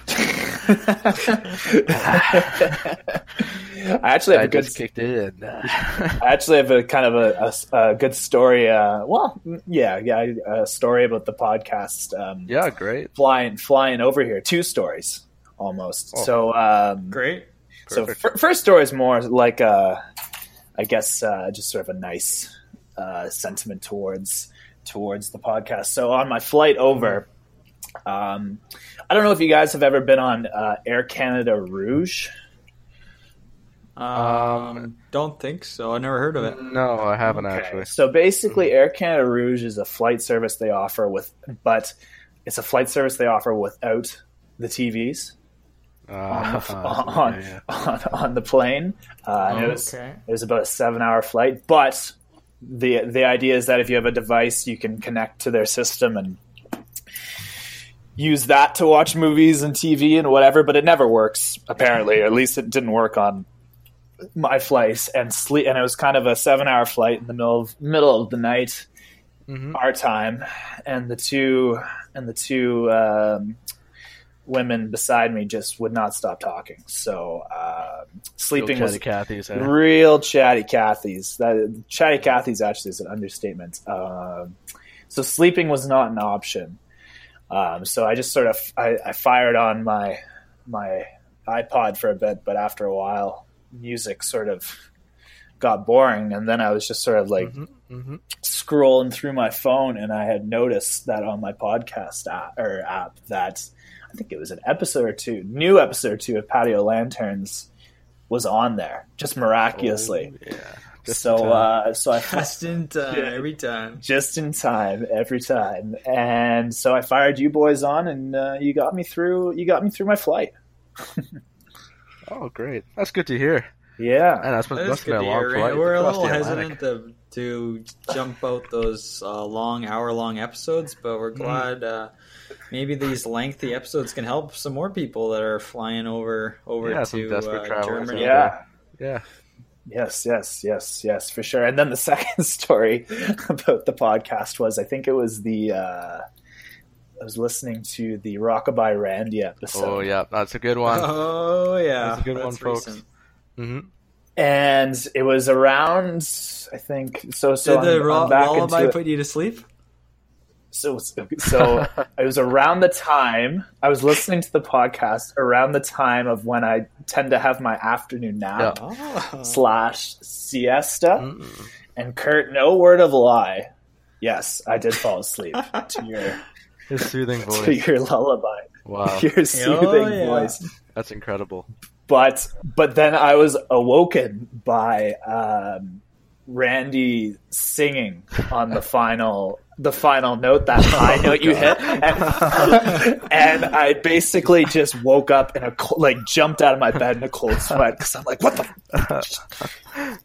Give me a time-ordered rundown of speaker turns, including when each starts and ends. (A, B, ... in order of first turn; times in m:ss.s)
0:00.1-0:04.8 A
0:01.8-0:02.9 B
0:04.3-0:06.2 B
0:06.2-0:12.5 A
0:12.5-0:13.1 B
0:13.1-0:17.2 A
0:17.1-0:17.5 C
0:17.9-0:18.2 B
0:17.9-0:20.0 A
0:20.8-0:27.3 A
0:28.1-0:32.3 A
0:34.0-0:36.6 C
0:34.1-0:34.9 B
0:36.4-0:37.9 B
0:37.3-0:45.4 A
0:46.1-0:47.6 B
0:46.3-0:56.4 A
0:49.5-0:50.2 C
0:58.2-1:03.4 A
1:04.4-1:08.9 A
1:09.5-1:09.8 B
1:09.7-1:13.6 A
1:14.4-1:24.6 A
1:18.5-1:19.8 B
1:25.1-1:26.8 A
1:27.5-1:34.8 A
1:35.6-1:37.5 A
1:37.4-1:38.2 B
1:38.4-1:47.7 A
1:48.3-1:50.3 A
1:49.7-1:51.7 B
1:51.0-1:53.4 A
1:52.2-1:54.0 C
1:54.0-2:01.3 A
2:02.3-2:03.7 B
2:04.0-2:04.5 A
2:04.4-2:06.8 B
2:04.7-2:12.1 C
2:11.4-2:11.7 B
2:12.7-2:18.5 C
2:16.8-2:19.2 B
2:18.1-2:18.6 A
2:19.9-2:26.2 A
2:27.2-2:30.1 A
2:29.7-2:31.1 B
2:30.9-2:33.0 C
2:32.0-2:33.0 B
2:33.6-2:33.9 B
2:34.4-2:39.0 A
2:37.6-2:39.7 C
2:40.7-2:48.8 A
2:48.7-2:49.6 C
2:49.4-2:51.3 A
2:51.2-2:51.7 B
2:52.0-2:53.7 A
2:54.2-2:56.4 A
2:56.9-2:57.8 B
2:57.5-3:00.6 A
2:58.9-2:59.3 B
2:59.5-3:00.6 C
3:01.0-3:01.7 B
3:02.1-3:19.4 A
3:10.9-3:12.6 B
3:19.0-3:19.3 B